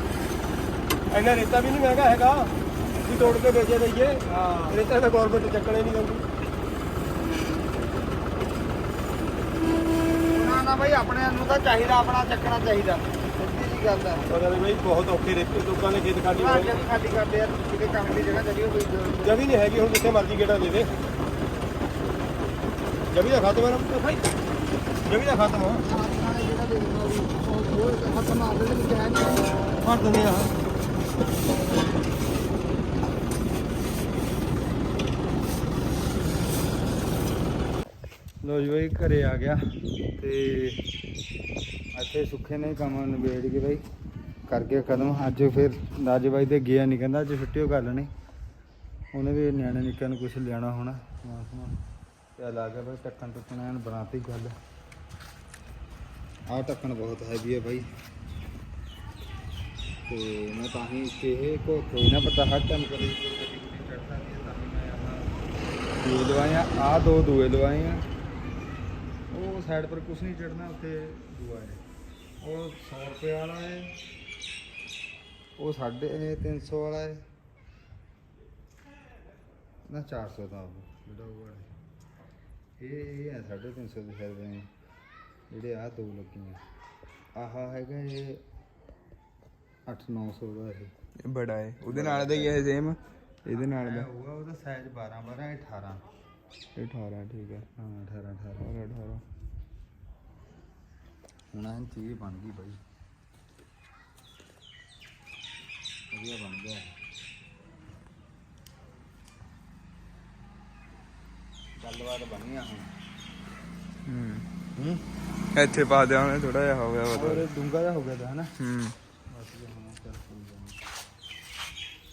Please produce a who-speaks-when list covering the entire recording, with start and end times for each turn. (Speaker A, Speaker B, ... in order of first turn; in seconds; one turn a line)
Speaker A: 1.1-2.5
Speaker A: 3.0-6.2
Speaker B: 4.3-4.8
Speaker B: 10.2-14.3
Speaker A: 14.3-16.8
Speaker B: 16.3-19.4
Speaker A: 19.2-20.9
Speaker A: 23.1-24.2
Speaker A: 25.1-25.9
Speaker B: 25.9-29.6
Speaker A: 29.8-30.5
Speaker B: 38.4-39.6
Speaker B: 40.2-40.8
Speaker B: 41.9-43.8
Speaker B: 44.5-48.1
Speaker B: 49.1-51.8
Speaker B: 52.4-54.5
Speaker B: 56.5-57.9
Speaker B: 60.1-65.3
Speaker B: 66.0-68.0
Speaker B: 69.3-71.8
Speaker B: 72.4-74.0
Speaker B: 75.6-77.2
Speaker B: 79.9-81.7
Speaker B: 82.8-84.7
Speaker B: 85.5-86.6
Speaker B: 87.3-88.4
Speaker B: 89.8-90.9
Speaker C: 91.2-94.1
Speaker B: 91.8-92.7
Speaker B: 93.5-96.1
Speaker C: 96.8-97.7
Speaker B: 97.8-98.7
Speaker C: 98.6-99.2
Speaker B: 101.5-102.8
Speaker B: 106.1-106.9
Speaker B: 111.8-112.9
Speaker C: 114.0-114.4
Speaker B: 114.8-115.0
Speaker C: 115.5-117.5
Speaker B: 117.1-118.5
Speaker C: 118.6-118.9
Speaker B: 119.3-120.8